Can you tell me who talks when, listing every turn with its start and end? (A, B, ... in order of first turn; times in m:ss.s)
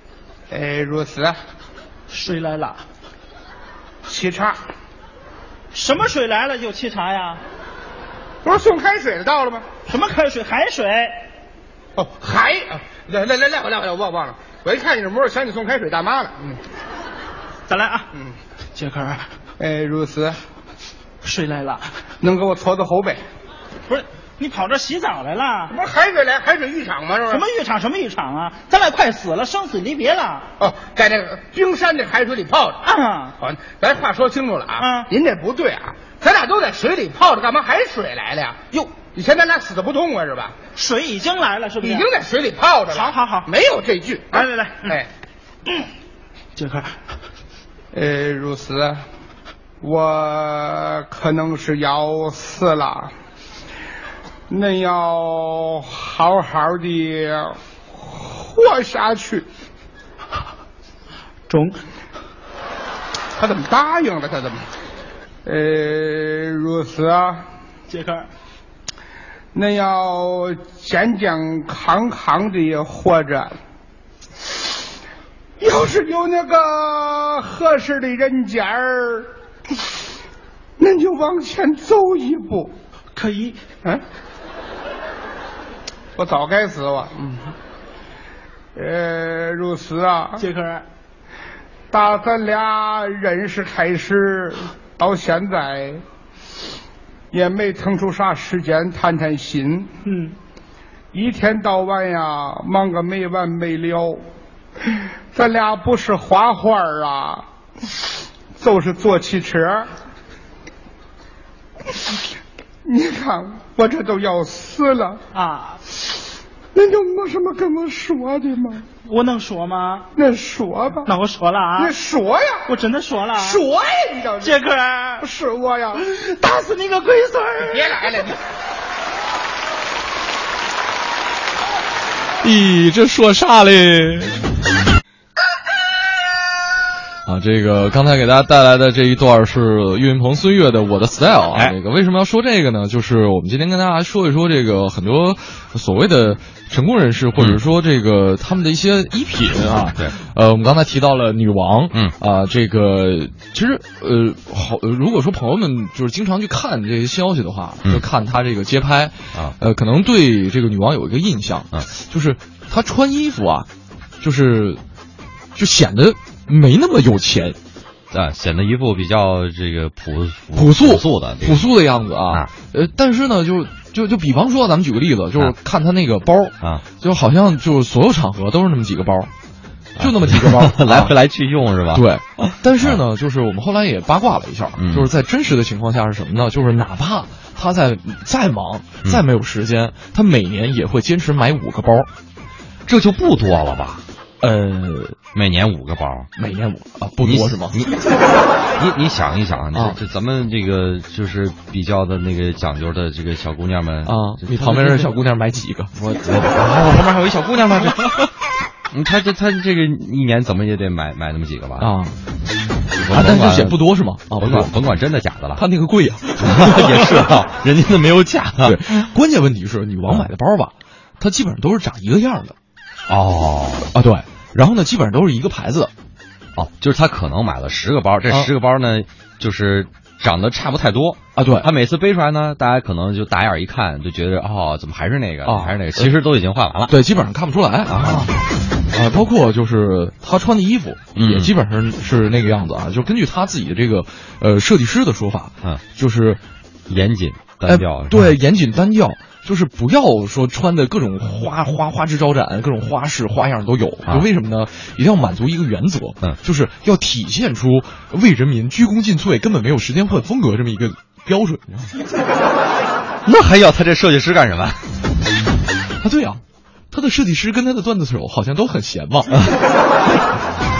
0:00.5-0:01.4 A
0:02.1-0:02.8 B
0:04.0-0:04.6 A
0:05.7-0:07.4 B
0:08.4-0:09.6 A
0:09.8-0:11.2 B
0:12.0-0:16.6 A
0:17.7-0:18.1 B
0:18.7-0:19.3 B
0:19.6-0:20.4 A
0:21.2-0:21.9 B
0:22.2-0:23.2 A
0:23.9-0:25.8 B
0:25.7-0:27.4 A
0:27.3-0:30.4 B
0:30.6-0:32.8 A
0:32.8-0:33.4 B
0:33.4-0:38.6 A
0:34.8-0:35.1 B
0:39.1-0:40.5 A
0:40.7-0:42.1 B
0:41.8-0:45.1 A
0:42.9-0:43.5 B
0:44.3-0:45.0 B
0:46.6-0:46.9 B
0:47.9-0:49.0 A
0:49.8-0:53.1 A
0:54.5-0:59.4 A
1:01.5-1:01.8 B
1:03.4-1:04.6 A
1:05.4-1:07.4 A
1:07.9-1:08.3 B
1:09.5-1:13.5 A
1:15.6-1:19.3 A
1:20.8-1:22.7 A
1:23.1-1:23.6 B
1:26.2-1:27.5 A
1:28.7-1:30.4 A
1:30.4-1:30.8 B
1:31.9-1:36.0 A
1:37.3-1:39.9 A
1:40.0-1:40.3 B
1:41.1-1:44.2 A
1:44.9-1:47.4 A
1:48.6-1:49.9 A
1:52.8-1:55.2 A
1:55.3-1:55.8 B
1:56.7-1:58.8 A
1:59.0-2:00.1 B
2:00.1-2:01.1 A
2:01.0-2:01.9 B
2:01.8-2:02.7 A
2:02.6-2:03.6 B
2:03.4-2:04.5 A
2:04.4-2:05.3 B
2:05.2-2:06.0 A
2:05.9-2:08.3 B
2:07.6-2:08.4 A
2:12.4-2:14.4 C
2:17.2-2:43.7 C
2:27.4-2:27.6 D
2:44.2-2:44.8 C
2:45.5-2:47.6 C
2:48.1-2:51.6 D
2:50.5-2:59.3 C
2:56.6-2:56.8 D
2:59.9-3:03.0 D
3:00.0-3:01.1 C
3:01.9-3:12.1 C
3:04.8-3:05.1 D
3:12.8-3:14.0 D
3:14.4-3:15.2 C
3:15.3-3:16.3 D
3:16.4-3:17.8 C
3:17.2-3:17.9 D
3:18.8-3:25.1 D
3:19.7-3:20.0 C
3:24.0-3:25.9 C
3:26.0-3:28.2 D
3:27.7-3:28.0 C
3:28.9-3:31.9 D
3:31.8-3:32.2 C
3:32.9-3:35.6 D
3:33.1-3:34.7 C
3:35.5-3:37.3 C
3:36.4-3:39.0 D
3:38.6-3:42.5 C
3:43.1-3:43.9 D
3:43.9-3:45.9 C
3:46.5-3:56.9 D
3:51.4-3:51.7 C
3:55.4-3:56.1 C
3:56.9-4:06.4 C
3:57.9-3:58.3 D
4:01.1-4:01.5 D
4:06.9-4:08.4 D
4:07.6-4:21.9 C
4:23.2-4:24.9 D
4:26.0-4:29.3 C